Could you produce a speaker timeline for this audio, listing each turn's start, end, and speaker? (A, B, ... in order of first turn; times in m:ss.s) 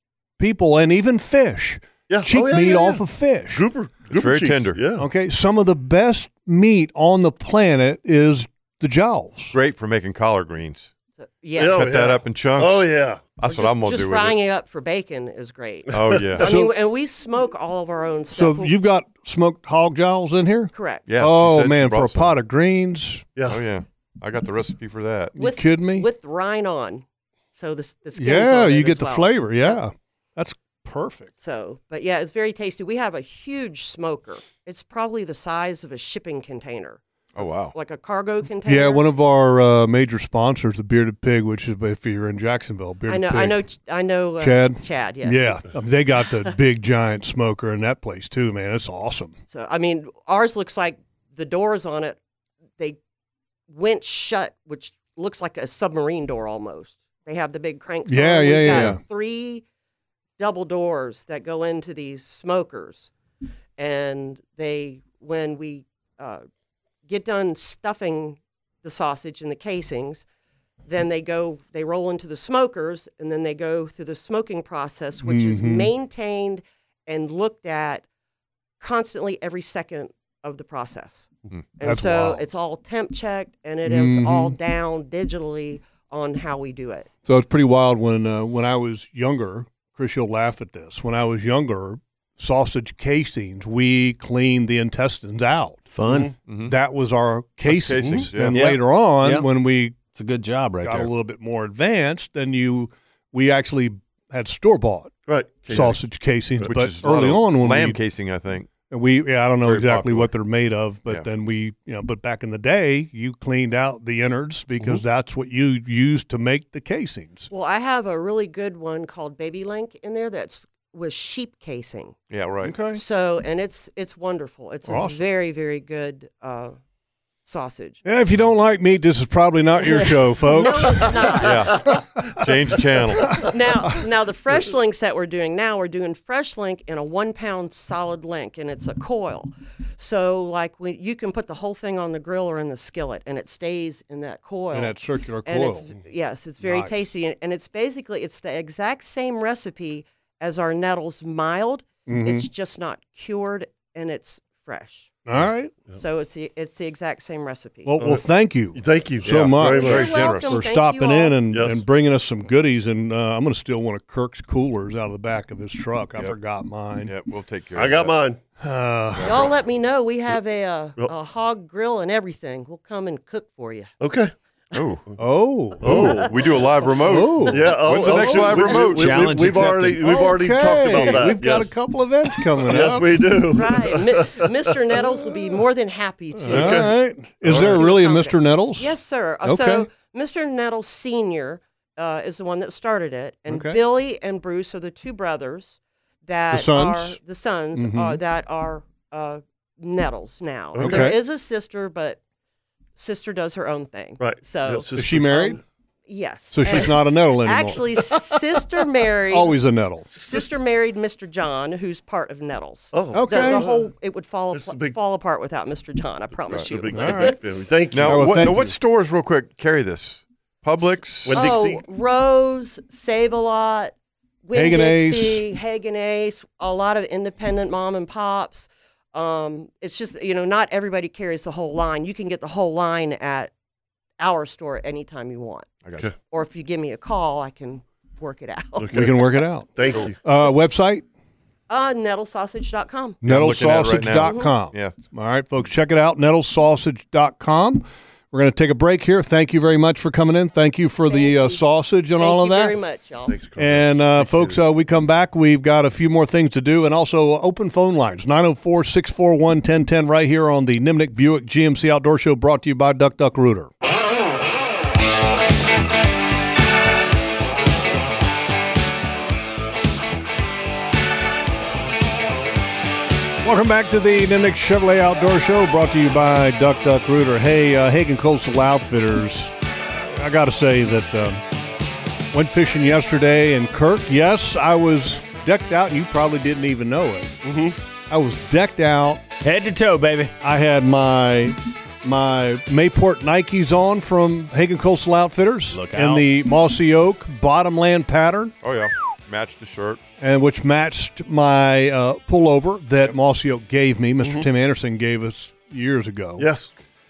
0:00.4-0:03.6 A
0:02.1-0:05.1 B
0:04.1-0:04.8 C
0:05.0-0:09.6 A
0:09.5-0:10.9 C
0:11.2-0:11.8 D
0:11.6-0:13.2 B
0:11.7-0:14.4 C
0:13.5-0:18.7 D
0:15.9-0:16.5 C
0:16.0-0:16.6 B
0:16.4-0:16.7 A
0:18.3-0:23.3 A
0:20.7-0:21.1 D
0:21.1-0:22.3 C
0:23.5-0:25.4 C
0:25.4-0:26.1 A
0:25.4-0:29.8 D
0:28.2-0:31.3 A
0:31.4-0:37.0 D
0:37.4-0:37.8 C
0:37.7-0:39.0 D
0:38.6-0:43.6 A
0:43.1-0:45.7 D
0:44.4-0:49.4 A
0:49.5-0:52.2 D
0:53.7-0:59.6 D
0:58.1-0:59.0 A
0:58.7-0:59.0 C
1:00.4-1:03.1 D
1:03.8-1:06.4 D
1:07.1-1:10.2 D
1:10.9-1:18.0 D
1:15.2-1:15.9 A
1:18.8-1:27.1 D
1:21.8-1:22.4 A
1:23.8-1:24.6 A
1:27.2-1:35.9 A
1:35.9-1:36.3 E
1:36.1-1:36.3 B
1:36.5-1:36.7 C
1:36.6-1:40.0 A
1:37.6-1:38.7 C
1:38.0-1:38.3 B
1:38.5-1:39.5 E
1:40.1-1:41.1 E
1:40.8-1:45.1 A
1:45.3-1:46.0 B
1:45.7-1:48.0 A
1:46.6-1:48.7 C
1:48.9-1:57.5 A
1:49.6-1:50.3 C
1:57.5-2:02.2 D
2:02.3-2:02.8 C
2:02.6-2:03.0 A
2:02.9-2:06.8 D
2:04.9-2:05.3 A
2:07.4-2:08.0 D
2:08.0-2:11.9 A
2:09.8-2:11.9 D
2:11.4-2:13.5 C
2:13.4-2:35.2 D
2:24.7-2:25.9 A
2:26.6-2:27.0 A
2:32.1-2:32.5 A
2:35.3-2:35.8 A
2:35.9-2:38.0 D
2:37.9-2:47.1 A
2:38.0-2:40.3 B
2:39.2-2:40.6 C
2:39.6-2:41.4 D
2:41.5-2:41.8 B
2:47.0-2:48.2 C
2:47.8-2:48.4 B
2:48.6-2:49.4 A
2:49.3-2:53.9 D
2:54.0-2:54.3 B
2:54.7-2:55.0 C
2:55.2-2:56.3 A
2:55.8-2:56.3 B
2:55.8-2:59.3 C
2:57.0-2:58.8 A
2:57.5-3:01.7 B
2:58.9-3:00.3 E
3:00.0-3:03.5 A
3:01.1-3:01.3 D
3:02.6-3:05.0 B
3:03.5-3:06.9 D
3:06.4-3:09.9 A
3:06.5-3:06.9 B
3:07.4-3:07.8 B
3:07.5-3:22.2 D
3:13.5-3:13.8 A
3:16.5-3:17.2 A
3:17.8-3:18.2 A
3:20.7-3:21.2 B
3:20.8-3:21.2 A
3:23.0-3:29.6 D
3:24.2-3:25.6 B
3:25.0-3:25.6 A
3:26.5-3:28.0 A
3:29.3-3:30.1 A
3:30.1-3:30.5 B
3:30.1-3:37.4 D
3:32.9-3:33.9 B
3:33.1-3:33.7 A
3:34.5-3:35.0 B
3:36.4-3:38.5 B
3:36.9-3:37.4 A
3:37.9-3:41.4 C
3:37.9-3:38.8 A
3:41.2-3:41.8 B
3:41.3-3:53.5 D
3:44.5-3:45.5 A
3:54.2-3:59.2 D
3:58.8-4:00.2 B
3:58.9-4:01.0 A
4:01.7-4:03.2 D
4:03.2-4:12.8 A
4:03.2-4:05.0 C
4:04.2-4:04.5 D
4:11.1-4:11.6 D
4:12.2-4:13.4 D
4:13.3-4:14.6 B
4:13.6-4:23.7 A
4:33.4-4:41.4 A
4:42.3-4:47.4 A
4:47.4-4:47.8 B
4:48.1-4:49.2 A
4:49.4-4:50.3 E
4:50.4-4:58.6 A
4:55.7-4:56.2 E
4:58.6-5:00.0 C
5:00.2-5:06.5 A
5:06.4-5:06.7 B